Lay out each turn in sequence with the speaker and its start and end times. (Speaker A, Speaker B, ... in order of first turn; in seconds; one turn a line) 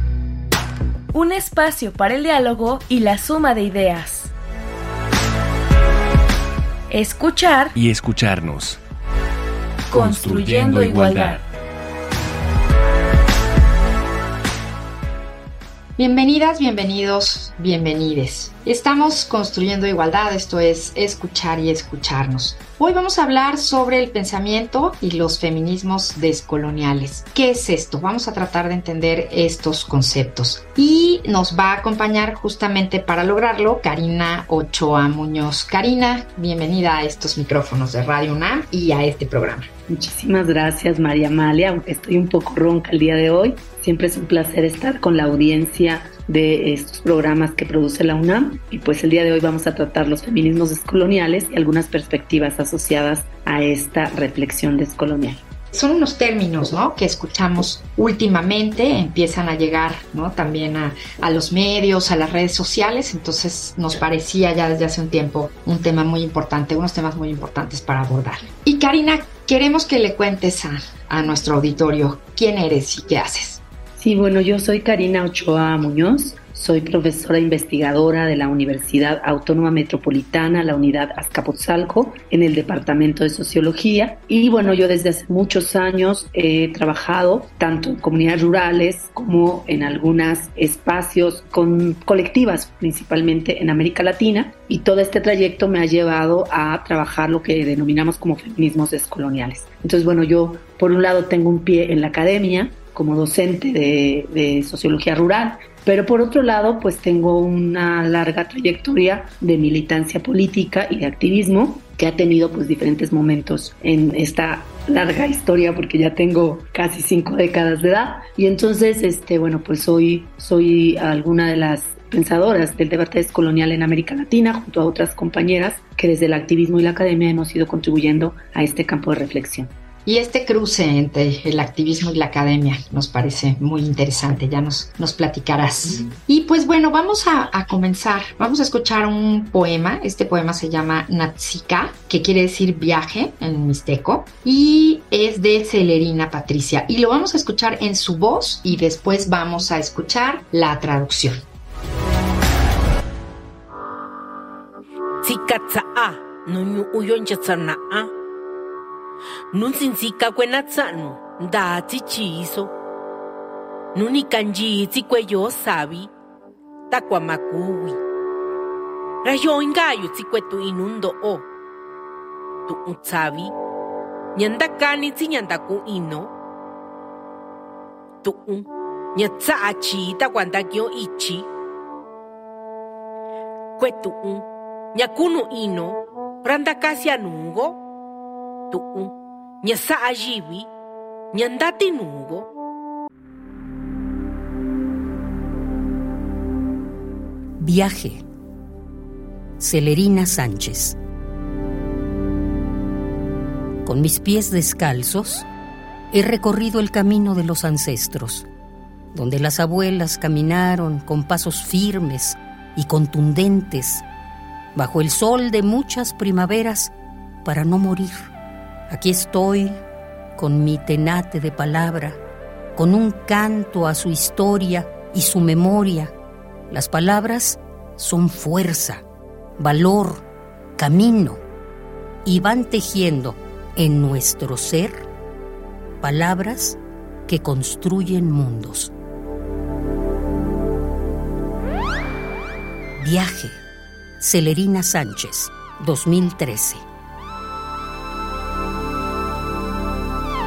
Speaker A: 1.1-4.3
Speaker A: 6.9-7.8
Speaker B: 7.8-8.8
Speaker A: 9.9-11.4
Speaker B: 9.9-11.4
Speaker C: 16.0-39.7
Speaker D: 39.9-55.4
Speaker C: 55.7-73.6
Speaker D: 74.0-129.7
Speaker C: 130.1-151.4
Speaker E: 155.2-158.1
Speaker E: 159.5-162.7
Speaker E: 163.9-166.1
Speaker E: 166.9-168.0
Speaker E: 169.2-171.5
Speaker E: 172.7-173.5
Speaker E: 174.4-176.3
Speaker E: 178.2-181.5
Speaker E: 183.8-187.8
Speaker E: 188.7-190.7
Speaker E: 191.3-192.5
Speaker F: 197.6-198.2
Speaker F: 199.6-201.0
Speaker F: 203.8-205.5
Speaker F: 206.1-208.5
Speaker F: 209.1-214.0
Speaker F: 214.8-216.9
Speaker F: 217.4-218.2
Speaker F: 218.9-219.8
Speaker F: 220.4-222.2
Speaker F: 222.8-226.1
Speaker F: 226.7-229.0
Speaker F: 229.6-230.2
Speaker F: 230.8-231.4
Speaker F: 232.2-235.0
Speaker F: 236.0-238.9
Speaker F: 243.0-243.6
Speaker F: 244.2-246.8